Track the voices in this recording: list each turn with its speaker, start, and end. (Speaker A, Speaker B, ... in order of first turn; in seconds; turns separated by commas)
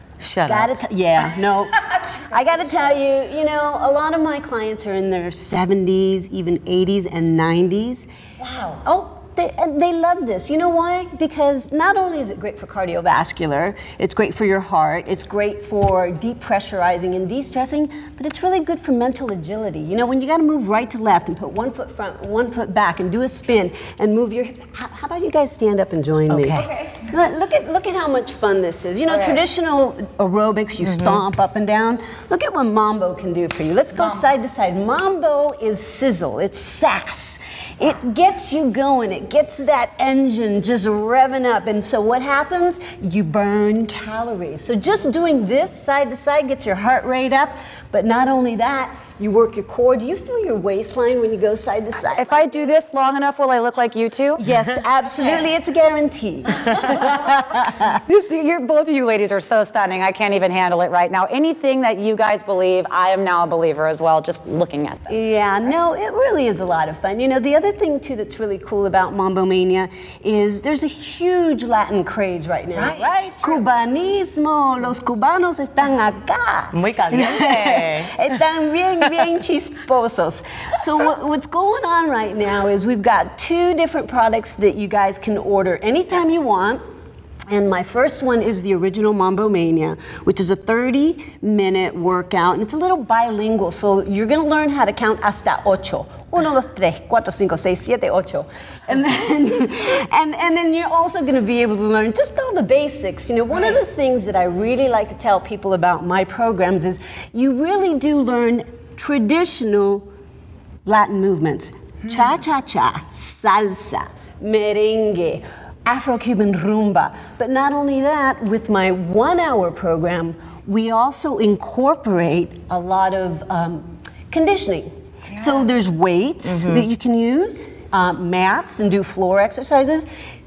Speaker A: 0.2-0.7, Speaker B: 0.4-8.1, Speaker B: 8.7-52.5, Speaker A: 26.3-26.6, Speaker A: 30.9-31.2, Speaker C: 52.1-54.4, Speaker B: 54.4-57.0, Speaker C: 56.7-65.1, Speaker B: 65.1-86.8, Speaker A: 76.7-78.3, Speaker B: 87.5-110.0, Speaker B: 110.8-130.1, Speaker A: 126.4-126.8